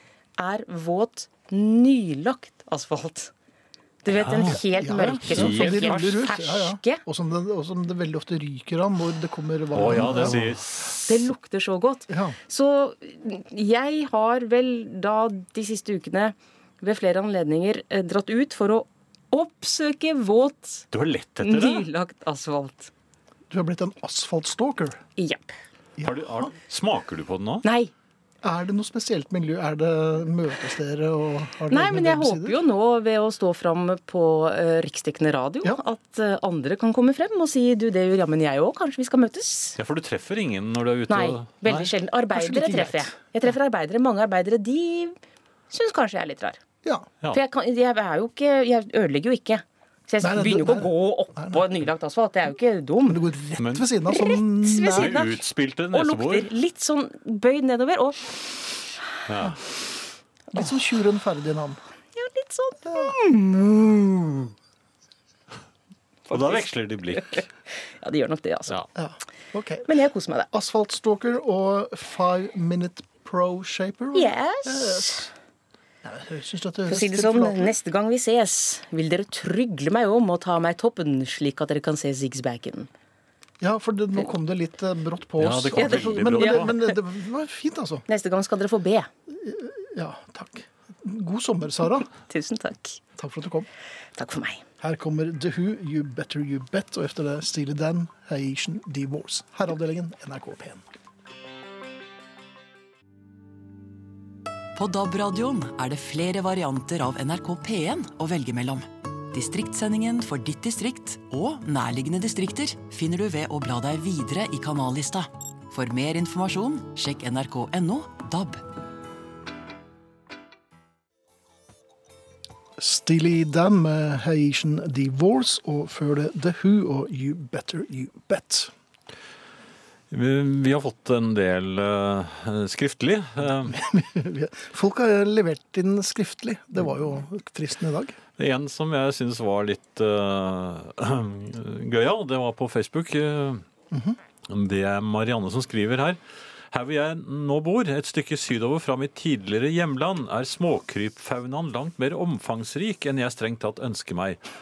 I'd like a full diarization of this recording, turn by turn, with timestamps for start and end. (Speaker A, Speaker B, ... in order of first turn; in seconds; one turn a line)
Speaker A: 0.4-3.3
Speaker A: 4.0-7.0
Speaker B: 4.1-6.2
Speaker C: 4.7-10.6
Speaker B: 9.7-11.2
Speaker A: 9.9-10.4
Speaker A: 10.9-20.9
Speaker C: 12.1-12.4
Speaker B: 20.9-21.9
Speaker A: 21.4-22.9
Speaker C: 23.5-25.0
Speaker A: 25.2-25.6
Speaker C: 26.0-26.5
Speaker B: 26.0-27.6
Speaker A: 27.6-27.9
Speaker C: 28.4-32.6
Speaker A: 31.7-39.8
Speaker B: 39.8-41.9
Speaker A: 41.1-45.2
Speaker C: 42.3-43.1
Speaker A: 45.7-46.6
Speaker A: 47.3-53.2
Speaker C: 50.2-51.6
Speaker C: 53.0-55.2
Speaker B: 53.6-53.9
Speaker A: 54.1-58.5
Speaker B: 54.9-56.5
Speaker B: 59.2-59.6
Speaker C: 60.5-61.8
Speaker A: 62.1-63.5
Speaker C: 62.9-64.5
Speaker A: 66.3-68.8
Speaker B: 66.3-67.5
Speaker C: 69.0-69.9
Speaker A: 69.9-70.5
Speaker C: 70.5-75.3
Speaker A: 74.1-75.3
Speaker C: 76.0-77.7
Speaker A: 76.9-82.9
Speaker C: 83.6-88.0
Speaker B: 85.4-86.7
Speaker A: 85.8-86.9
Speaker A: 88.1-89.1
Speaker C: 89.3-92.1
Speaker A: 92.2-93.0
Speaker C: 93.2-93.7
Speaker A: 94.2-94.6
Speaker C: 94.8-100.8
Speaker D: 104.7-118.6
Speaker C: 122.8-128.7
Speaker B: 130.1-133.8
Speaker C: 133.7-138.2
Speaker B: 138.4-143.6
Speaker C: 143.9-144.2
Speaker B: 144.5-146.2
Speaker B: 146.7-154.4